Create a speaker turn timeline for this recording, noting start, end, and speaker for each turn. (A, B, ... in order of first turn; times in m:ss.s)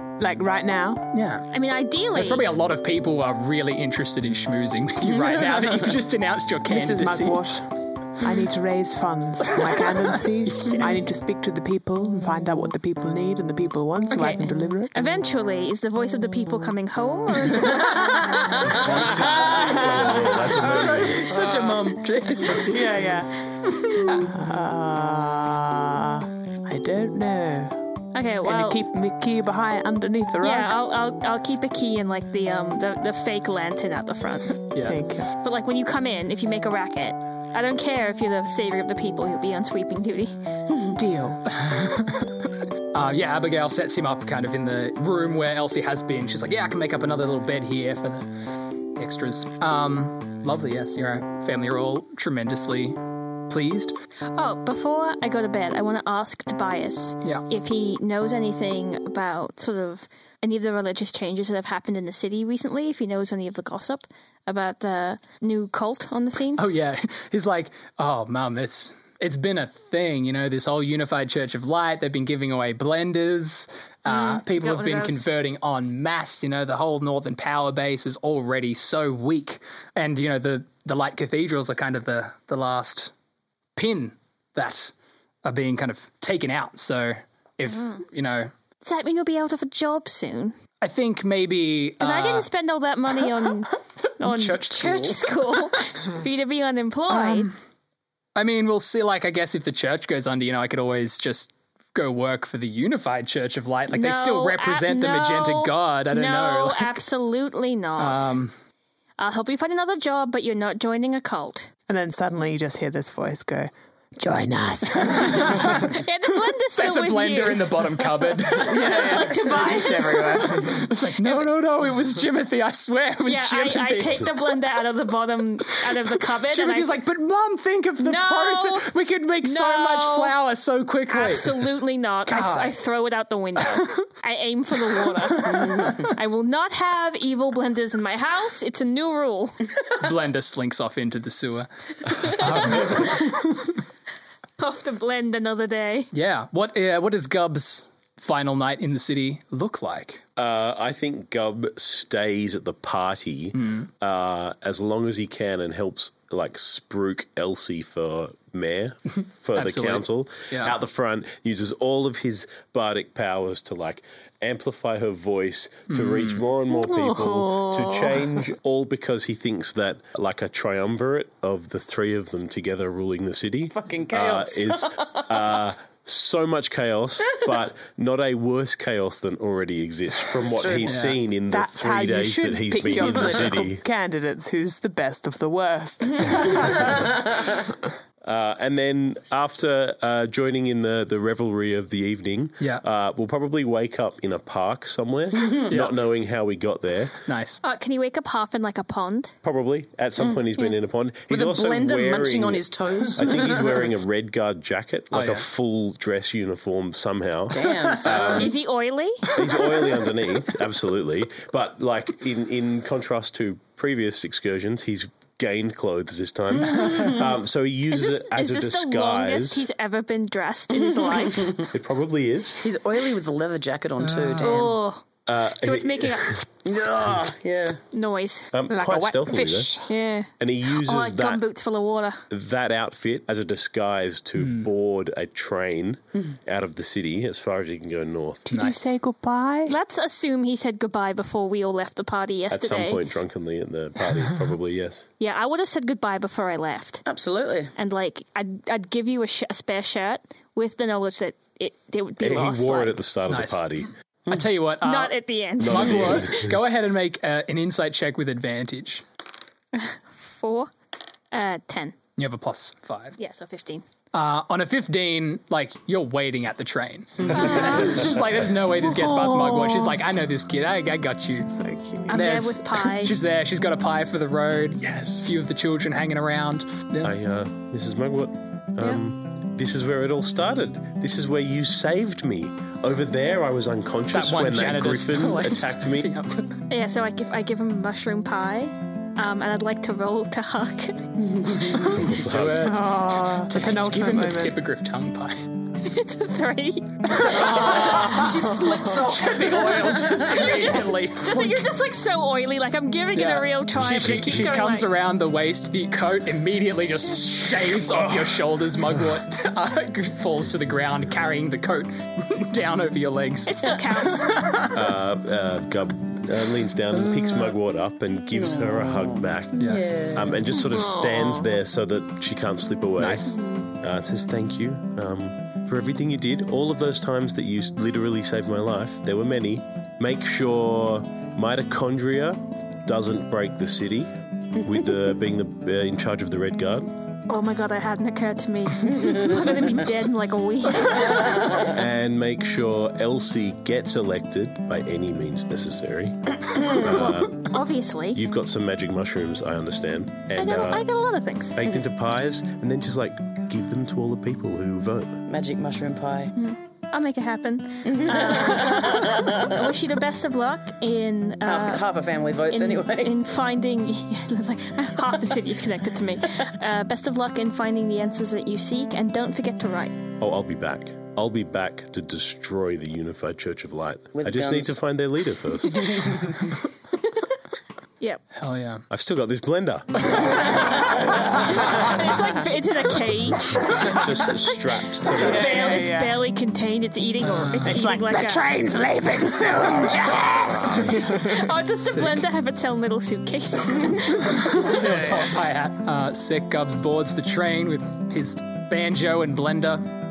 0:00.2-0:01.1 A
0:01.1-0:01.5 B
0:01.5-0:02.5 C
0:02.2-0:07.5 B
0:06.7-0:15.0 A
0:14.1-0:18.5 C
0:18.1-0:23.1 D
0:18.6-0:21.5 E
0:22.6-0:23.4 A
0:24.1-0:27.8 A
0:28.1-0:28.8 C
0:28.4-0:30.8 A
0:30.4-0:34.7 C
0:34.8-0:35.3 A
0:35.4-0:40.4 C
0:41.0-0:41.4 A
0:41.5-0:54.0 B
0:54.4-1:06.6 C
1:06.6-1:23.1 B
1:14.1-1:15.3 C
1:23.8-1:24.9 B
1:25.4-1:28.5 B
1:27.7-1:28.0 C
1:28.8-1:30.6 C
1:30.8-1:32.5 B
1:32.0-1:37.5 C
1:34.2-1:35.8 B
1:37.1-1:37.5 B
1:38.4-1:47.0 B
1:43.9-1:48.4 C
1:48.0-1:48.5 B
1:49.2-1:51.7 C
1:51.9-1:55.9 A
1:55.1-1:55.8 B
1:55.4-2:00.7 C
1:56.6-1:59.4 B
1:58.6-2:00.9 A
2:00.1-2:04.6 B
2:03.3-2:06.9 C
2:06.3-2:11.8 B
2:08.0-2:08.9 C
2:09.4-2:10.3 C
2:11.1-2:19.7 C
2:12.3-2:12.8 B
2:15.3-2:16.1 B
2:19.9-2:23.7 B
2:22.2-2:23.2 C
2:24.6-2:26.1 C
2:26.1-2:30.2 B
2:30.4-3:03.8 E
2:33.6-2:33.9 B
2:39.5-2:40.8 B
2:45.9-2:46.4 B
2:46.8-2:48.2 A
2:53.7-2:55.5 D
3:00.4-3:01.0 D
3:00.8-3:01.2 B
3:01.5-3:07.4 A
3:08.2-3:17.2 E
3:15.7-3:16.0 B
3:17.3-3:17.6 B
3:17.6-3:19.3 C
3:19.4-3:28.6 E
3:21.3-3:23.9 D
3:25.1-3:25.5 B
3:27.5-3:28.6 D
3:28.1-3:29.3 C
3:29.3-3:39.7 E
3:37.9-3:41.7 C
3:41.7-3:42.6 E
3:42.6-3:44.7 D
3:44.0-3:44.7 B
3:44.4-3:46.5 C
3:45.3-3:46.5 E
3:46.6-3:47.8 D
3:47.9-3:48.5 C
3:48.5-3:49.8 E
3:48.7-3:49.9 A
3:49.8-3:52.2 C
3:50.4-3:51.4 E
3:52.3-3:58.5 E
3:58.5-3:59.8 A
3:58.5-3:59.0 B
3:59.7-4:03.0 C
4:02.5-4:05.1 E
4:05.2-4:07.0 C
4:07.1-4:07.7 D
4:07.8-4:13.0 C
4:12.2-4:13.9 E
4:13.3-4:13.6 B
4:14.3-4:19.0 B
4:14.8-4:16.3 C
4:15.6-4:16.6 E
4:19.7-4:20.7 C
4:21.3-4:22.0 C
4:22.2-4:23.2 B
4:23.2-4:23.9 C
4:24.1-4:31.5 B
4:27.3-4:28.1 C
4:29.1-4:29.9 C
4:31.5-4:32.2 A
4:32.1-4:37.2 B
4:32.1-4:33.2 C
4:34.8-4:35.3 E
4:37.0-4:46.1 E
4:44.1-4:46.6 B
4:46.7-4:51.5 C
4:51.7-4:55.5 B
4:51.8-4:52.8 E
4:52.6-4:54.6 A
4:55.8-4:57.6 C
4:57.1-5:01.7 B
4:57.2-5:00.8 D
5:00.3-5:04.9 C
5:03.1-5:14.7 B
5:13.5-5:14.3 C
5:14.7-5:36.9 E
5:18.4-5:20.3 D
5:19.6-5:20.2 B
5:20.7-5:21.5 A
5:23.0-5:23.4 B
5:37.3-5:41.7 C
5:41.5-5:47.6 E
5:46.8-5:48.2 C
5:48.1-5:50.9 E
5:50.4-5:51.6 C
5:51.5-5:55.2 E
5:55.3-5:56.3 D
5:56.4-6:01.9 C
5:57.9-5:59.5 D
6:01.4-6:03.2 D
6:02.5-6:10.0 C
6:10.2-6:16.3 E
6:14.2-6:14.8 D
6:18.4-6:18.9 B
6:18.9-6:21.3 E
6:21.1-6:21.5 A
6:21.3-6:24.3 C
6:23.6-6:25.8 E
6:23.8-6:24.2 A
6:25.0-6:26.2 A
6:25.1-6:28.6 C
6:27.2-6:27.8 B
6:27.6-6:31.5 A
6:30.8-6:35.0 C
6:31.9-6:32.3 B
6:34.1-6:39.8 B
6:34.7-6:35.2 A